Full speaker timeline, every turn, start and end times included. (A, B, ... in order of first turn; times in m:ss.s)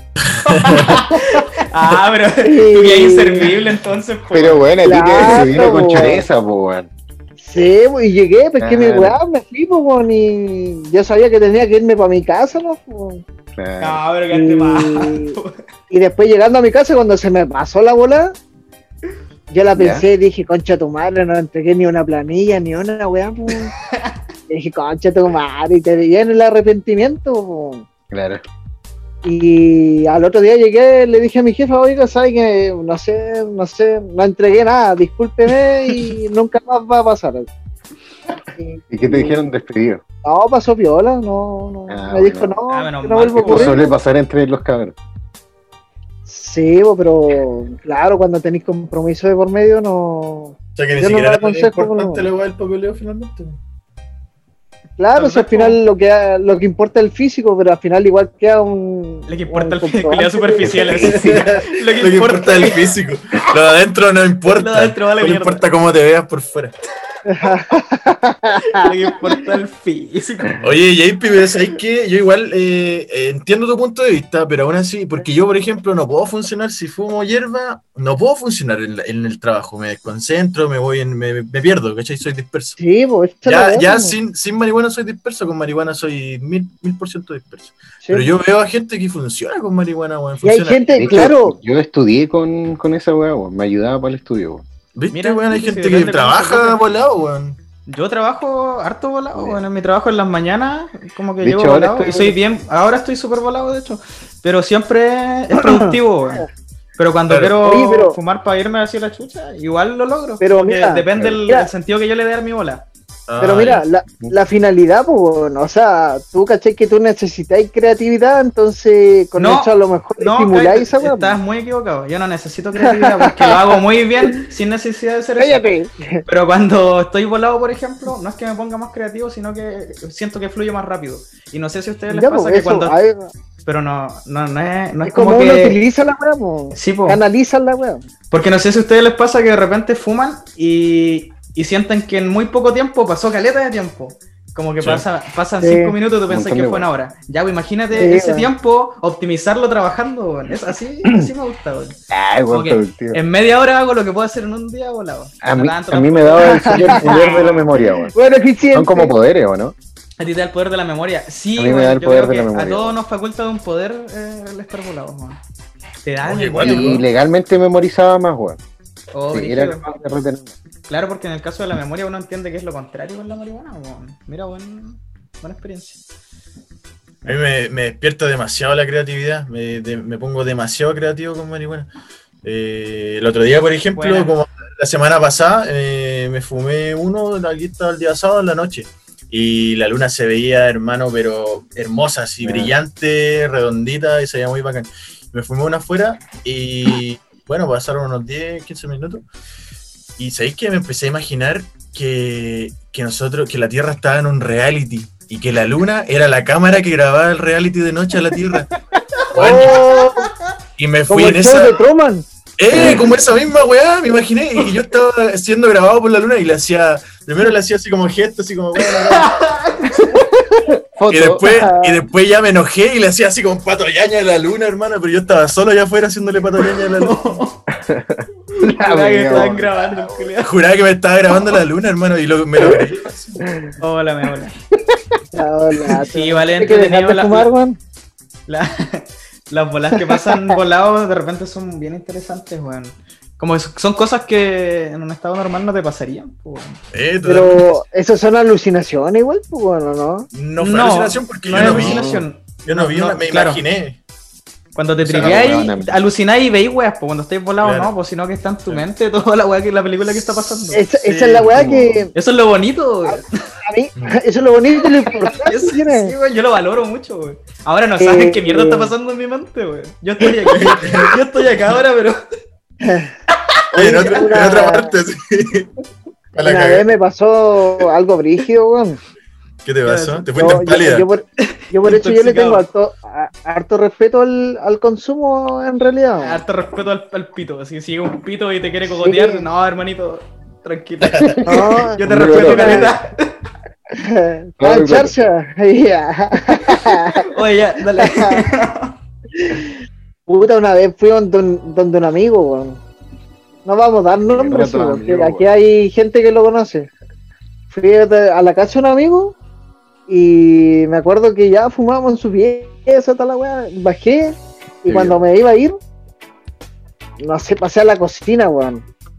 0:00.3-0:01.0 A
0:00.5-0:04.7 B
0:02.4-0:03.5 C
0:04.3-0:06.9 D
0:04.8-0:06.2 C
0:07.4-0:13.2 C
0:08.6-0:09.2 D
0:13.6-0:14.0 D
0:13.8-0:15.6 B
0:14.3-0:15.4 C
0:15.9-0:18.3 C
0:19.5-0:23.7 C
0:19.8-0:20.1 D
0:23.9-0:24.2 B
0:24.5-0:27.9 C
0:28.1-0:28.4 D
0:29.2-0:37.5 C
0:38.6-0:39.4 C
0:38.9-0:40.0 D
0:40.2-0:43.9 C
0:41.9-0:42.6 D
0:42.7-0:43.9 B
0:43.4-0:45.0 D
0:46.3-0:52.3 C
0:50.8-0:53.6 A
0:55.0-1:01.0 C
0:55.2-0:55.8 B
0:59.3-1:02.8 B
1:00.7-1:01.5 D
1:01.1-1:06.7 A
1:04.5-1:05.6 B
1:07.3-1:08.9 C
1:08.6-1:10.6 B
1:10.6-1:22.8 A
1:22.8-1:24.2 C
1:23.4-1:31.0 A
1:30.4-1:31.6 C
1:30.9-1:34.6 D
1:35.0-1:37.6 A
1:35.1-1:36.8 B
1:37.9-1:46.5 B
1:41.4-1:42.4 D
1:45.5-1:46.4 C
1:47.0-1:52.9 B
1:47.3-1:47.6 A
1:47.6-1:48.2 C
1:50.4-1:51.7 C
1:53.3-1:53.8 A
1:53.4-2:01.4 C
1:59.4-2:05.7 B
2:02.8-2:04.4 C
2:05.4-2:06.2 C
2:06.2-2:13.0 B
2:12.1-2:13.3 C
2:13.6-2:15.8 B
2:15.0-2:18.1 C
2:16.7-2:17.2 B
2:18.3-2:32.0 B
2:25.6-2:26.0 C
2:26.3-2:26.9 D
2:27.9-2:28.5 C
2:31.0-2:31.3 D
2:32.1-2:33.2 D
2:32.5-2:37.8 B
2:35.4-2:38.1 D
2:36.4-2:37.5 C
2:38.1-2:39.1 C
2:38.7-2:39.8 D
2:40.2-2:45.4 B
2:41.6-2:43.0 D
2:46.0-2:47.0 B
2:46.2-2:47.0 A
2:46.6-2:48.6 D
2:49.1-2:49.8 B
2:49.3-2:50.5 D
2:50.9-2:56.0 B
2:57.2-3:01.9 A
3:02.4-3:19.2 A
3:03.9-3:04.3 B
3:12.4-3:12.8 D
3:20.2-3:28.7 A
3:29.3-3:30.1 A
3:29.3-3:30.3 C
3:30.8-3:31.8 A
3:31.1-3:32.3 C
3:32.6-3:39.5 A
3:32.7-3:33.1 D
3:38.8-3:40.1 B
3:40.7-3:41.6 D
3:41.1-3:47.2 A
3:41.5-3:42.0 C
3:46.8-3:47.7 B
3:47.7-3:50.3 D
3:48.5-3:50.5 B
3:50.4-3:53.4 A
3:52.6-3:52.8 D
3:53.4-3:53.8 D
3:53.8-3:54.5 B
3:54.7-3:55.2 D
3:55.3-3:57.8 C
3:56.0-3:57.5 B
3:58.5-4:06.8 B
4:00.0-4:00.4 C
4:06.9-4:07.8 A
4:07.2-4:10.3 C
4:10.3-4:14.0 A
4:10.6-4:13.6 B
4:11.5-4:12.3 D
4:14.8-4:20.8 B
4:15.0-4:15.6 A
4:15.1-4:16.0 D
4:17.6-4:17.9 A
4:20.7-4:22.1 C
4:21.0-4:21.6 A
4:21.5-4:22.1 D
4:22.2-4:23.3 B
4:23.1-4:26.1 C
4:25.2-4:32.2 B
4:28.0-4:28.9 C
4:30.5-4:31.2 A
4:32.8-4:33.1 C
4:33.7-4:35.7 A
4:33.7-4:34.9 C
4:36.4-4:36.9 A
4:36.4-4:39.0 C
4:39.6-4:41.1 A
4:39.8-4:40.3 B
4:40.4-4:46.4 C
4:41.4-4:42.7 B
4:46.2-4:53.3 B
4:48.8-4:49.5 C
4:51.3-4:53.0 D
4:51.4-4:52.9 C
4:54.0-4:57.3 C
4:54.6-4:55.2 D
4:57.2-4:59.0 B
4:58.0-4:58.4 C
4:59.4-4:59.7 C
5:00.3-5:02.8 C
5:03.6-5:06.9 C
5:04.2-5:05.5 D
5:07.7-5:09.4 C
5:10.1-5:15.8 C
5:14.9-5:15.2 D
5:17.2-5:18.8 C